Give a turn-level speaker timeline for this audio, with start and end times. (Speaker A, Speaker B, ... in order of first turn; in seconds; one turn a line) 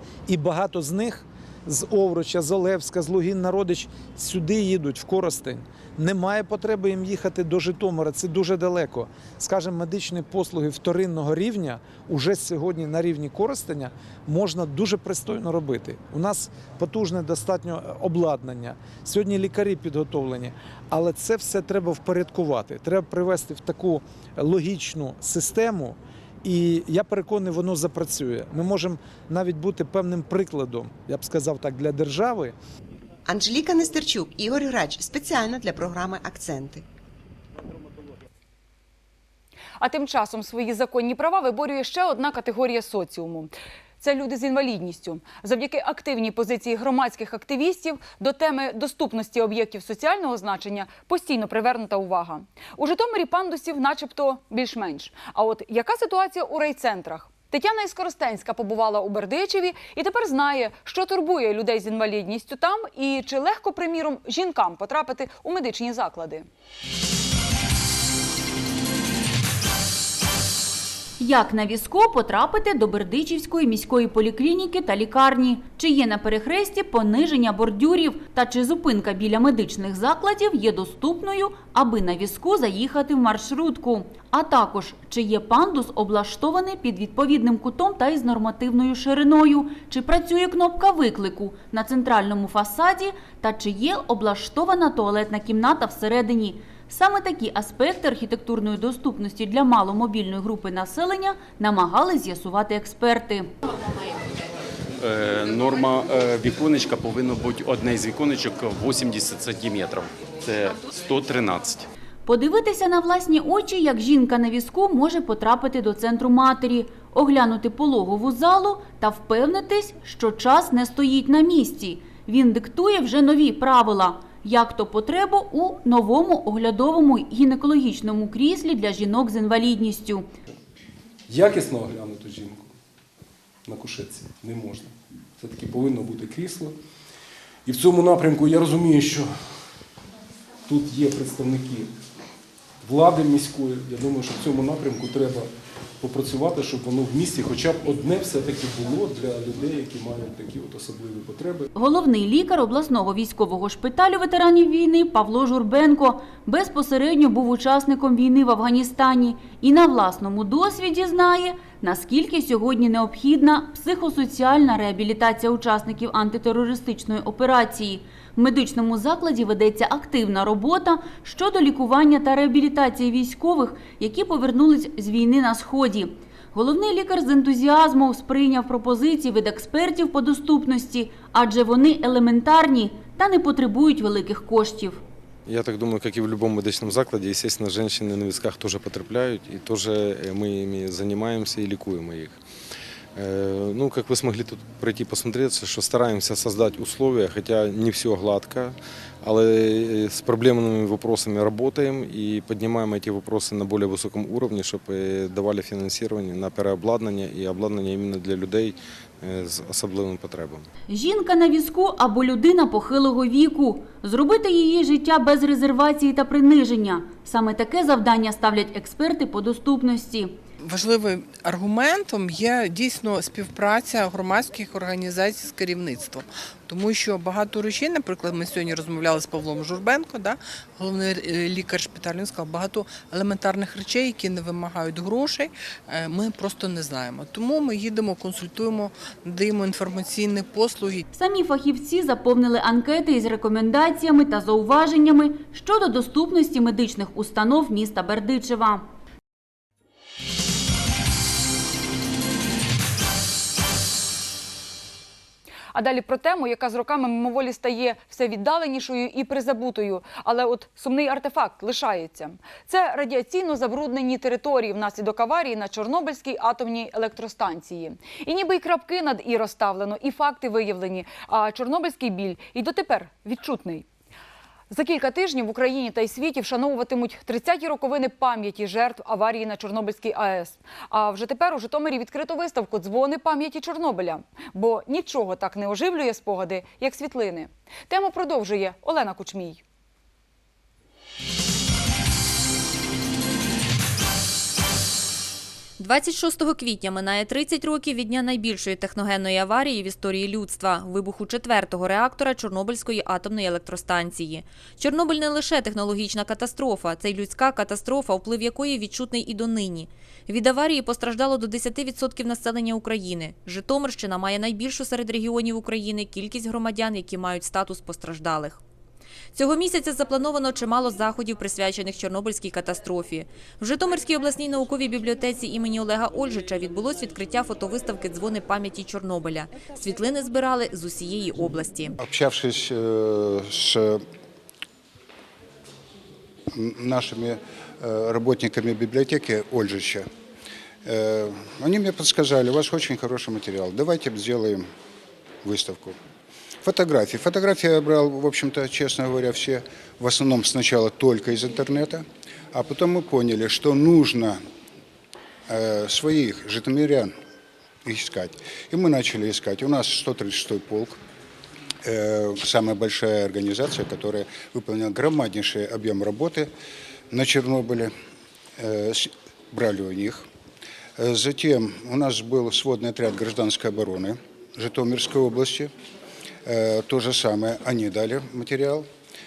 Speaker A: 0.3-32.5
Speaker B: 33.3-36.8
Speaker C: 39.8-66.5
Speaker D: 71.2-103.5
Speaker E: 105.0-111.8
Speaker D: 112.3-130.3
Speaker F: 131.3-132.7
Speaker F: 133.7-136.8
Speaker F: 137.7-139.4
Speaker F: 140.7-141.9
Speaker F: 142.8-145.5
Speaker F: 146.0-151.7
Speaker D: 151.8-185.0
Speaker G: 185.5-192.4
Speaker G: 193.2-210.7
Speaker D: 210.9-220.3
Speaker H: 220.6-241.1
Speaker D: 241.1-248.9
Speaker C: 255.7-273.9
Speaker C: 274.7-289.6
Speaker I: 295.8-318.6
Speaker I: 319.4-332.0
Speaker J: 332.0-334.1
Speaker J: 336.5-340.1
Speaker J: 340.9-344.7
Speaker J: 345.4-346.0
Speaker J: 346.6-354.4
Speaker J: 355.5-357.1
Speaker J: 357.9-361.0
Speaker J: 361.9-366.5
Speaker J: 367.1-367.9
Speaker J: 368.6-370.3
Speaker J: 371.0-375.7
Speaker J: 376.5-378.9